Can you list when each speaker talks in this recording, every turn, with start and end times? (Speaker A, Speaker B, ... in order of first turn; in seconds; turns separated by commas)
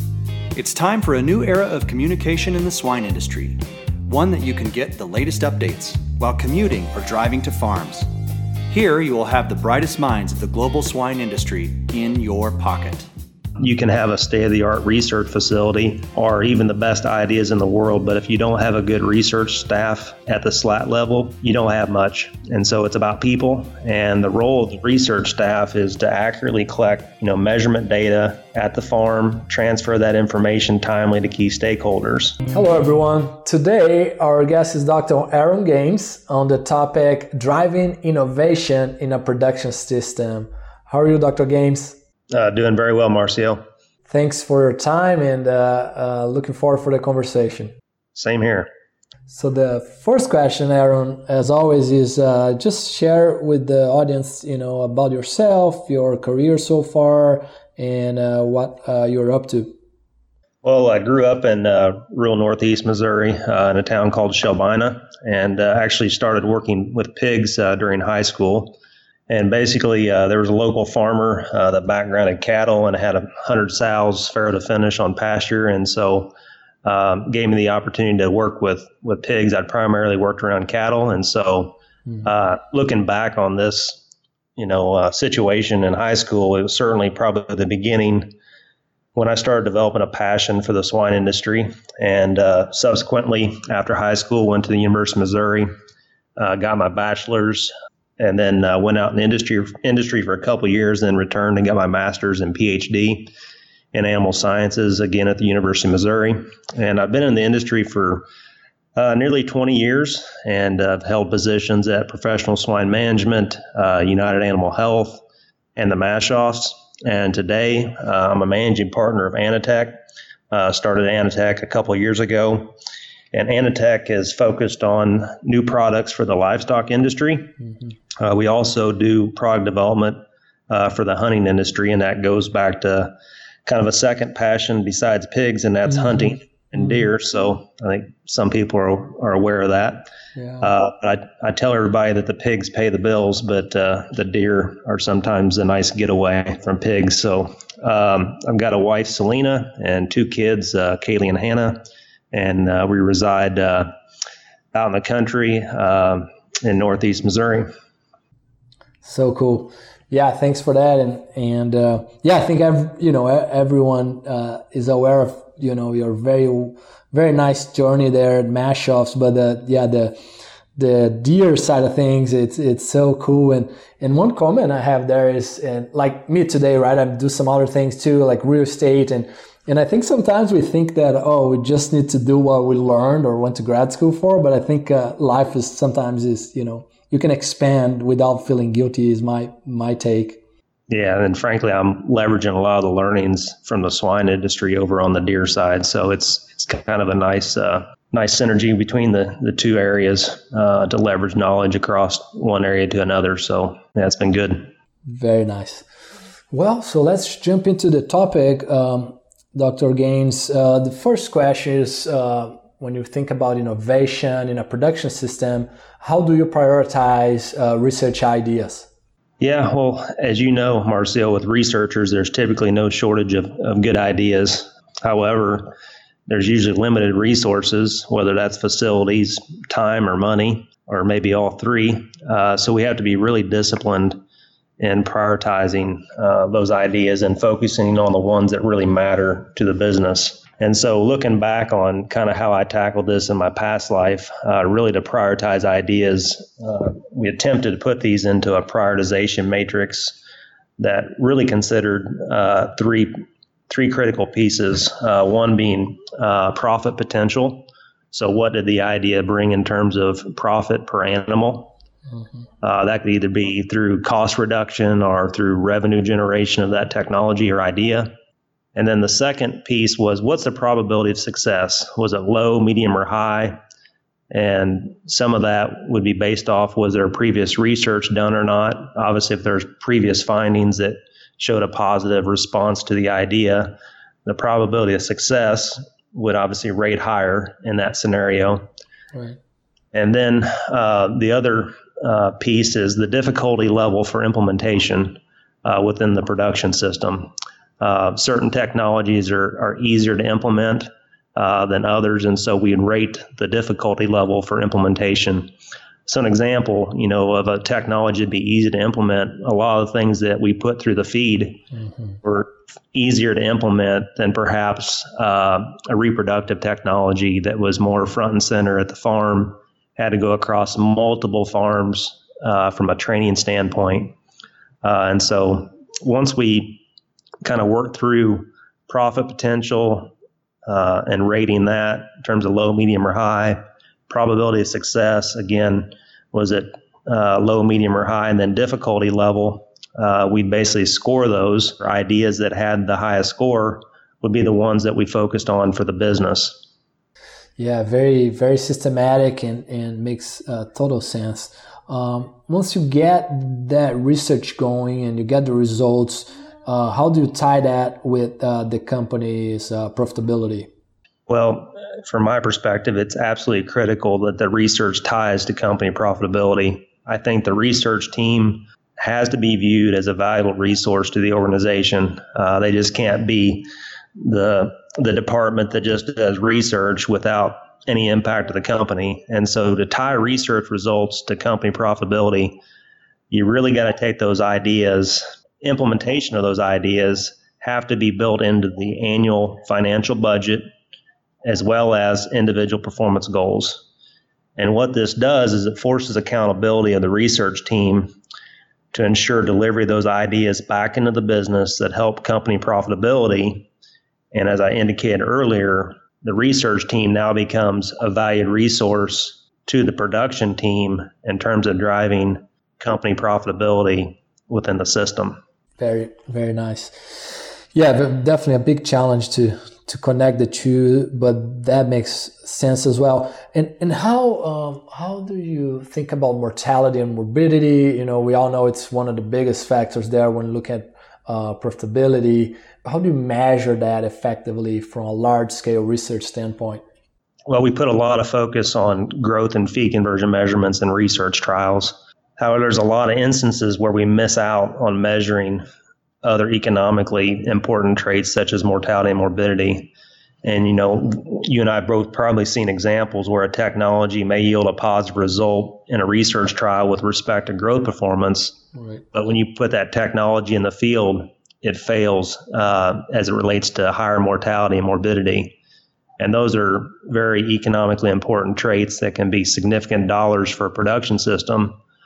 Speaker A: 0.5-8.1, Speaker A: 8.7-13.1, Speaker B: 13.6-32.4, Speaker C: 32.5-42.0, Speaker B: 42.3-43.6, Speaker C: 44.1-47.7, Speaker B: 48.1-48.7, Speaker C: 49.3-59.7, Speaker B: 60.6-68.8, Speaker B: 69.3-84.0, Speaker B: 84.6-88.3, Speaker B: 89.1-95.7, Speaker B: 96.4-103.3, Speaker B: 103.9-108.2, Speaker B: 109.0-115.2, Speaker B: 115.8-120.0, Speaker B: 120.5-122.7, Speaker B: 123.3-127.5, Speaker B: 128.2-130.2, Speaker B: 130.7-133.1, Speaker B: 133.7-140.1, Speaker C: 135.9-136.3, Speaker C: 140.3-140.7, Speaker B: 140.6-153.9, Speaker B: 154.7-157.7, Speaker C: 159.0-170.2, Speaker C: 170.8-190.4, Speaker B: 190.9-204.7, Speaker C: 205.1-205.8, Speaker C: 206.5-218.9, Speaker B: 219.4-225.7, Speaker B: 226.3-234.2, Speaker B: 234.8-250.2, Speaker B: 250.8-253.1, Speaker B: 253.7-261.8, Speaker B: 262.6-268.1, Speaker B: 268.8-273.6, Speaker B: 274.3-283.7, Speaker B: 284.2-288.6, Speaker B: 289.9-305.5, Speaker B: 306.1-311.6, Speaker B: 312.2-324.1, Speaker B: 324.8-326.8, Speaker B: 327.4-330.1, Speaker B: 330.7-346.6, Speaker C: 347.6-360.7, Speaker B: 361.3-373.7, Speaker B: 374.2-382.6, Speaker B: 383.3-390.6, Speaker B: 391.4-393.8, Speaker B: 394.6-398.1, Speaker B: 398.9-403.7, Speaker B: 404.3-415.4, Speaker C: 415.8-436.8, Speaker B: 437.5-445.6, Speaker B: 446.2-449.9, Speaker B: 450.4-458.6, Speaker C: 458.7-459.0, Speaker B: 459.1-465.6, Speaker B: 466.2-471.8